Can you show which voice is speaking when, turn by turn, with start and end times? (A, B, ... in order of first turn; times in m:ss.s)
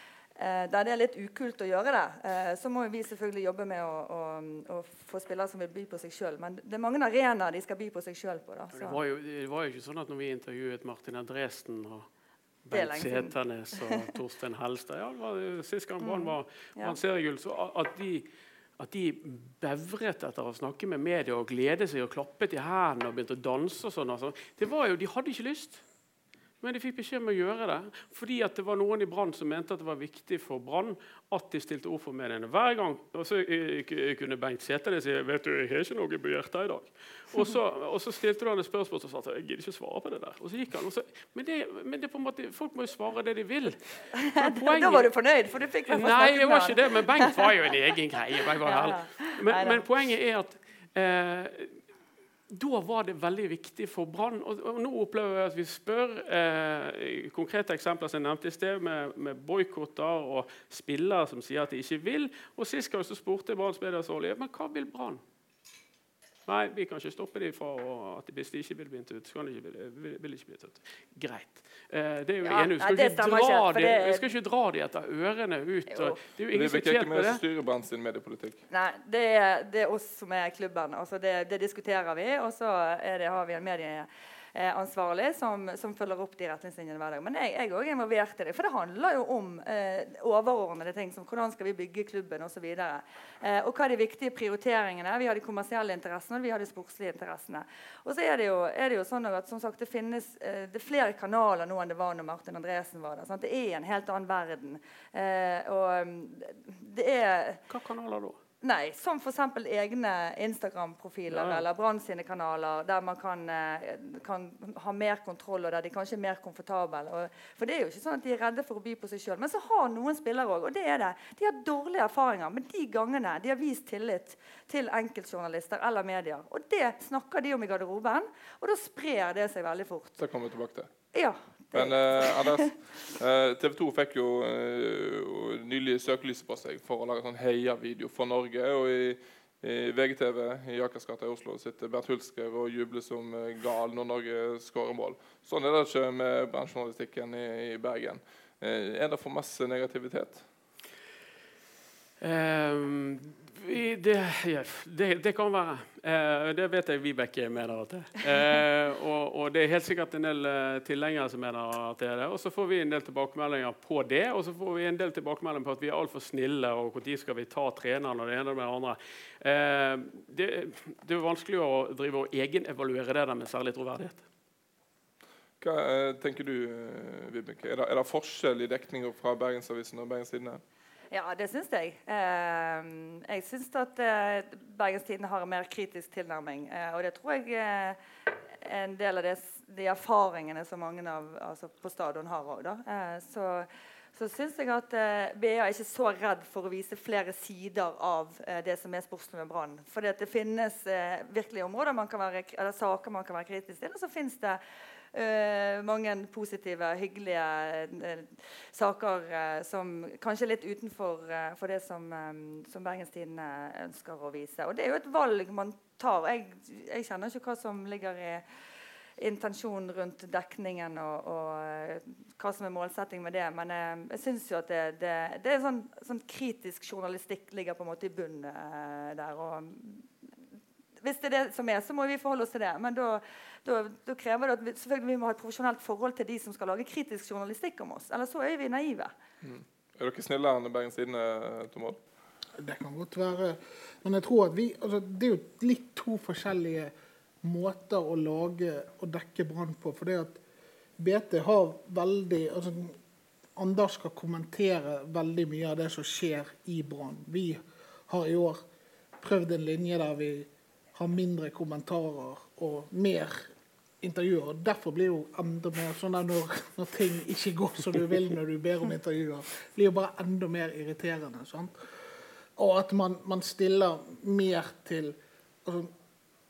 0:00.4-0:09.0 A
0:08.7-0:12.1 B
0:12.6-0:18.2 B
0:12.7-0:13.3 A
0:16.0-0:17.0 A
0:18.8-0:25.8 B
0:26.6-0:45.1 B
0:44.1-0:47.4 A
0:45.9-0:51.8 B
0:48.6-0:49.8 A
0:52.5-1:05.2 B
1:06.5-1:17.4 B
1:12.4-1:14.3 A
1:15.9-1:16.2 A
1:16.5-1:18.6 C
1:18.7-1:47.6 A
1:47.7-1:48.4 B
1:48.6-2:10.2 A
1:51.3-1:51.6 B
2:10.2-2:10.9 C
2:11.1-2:12.7 A
2:11.7-2:30.4 C
2:32.2-2:54.2 B
2:55.6-3:00.6 C
3:01.1-3:08.0 A
3:08.5-3:24.6 A
3:25.1-3:38.4 A
3:39.2-3:50.1 A
3:51.0-3:59.1 A
3:59.4-4:02.0 C
4:02.6-4:10.4 D
4:11.0-4:13.0 D
4:13.6-4:18.6 D
4:19.2-4:23.5 D
4:24.0-4:35.9 D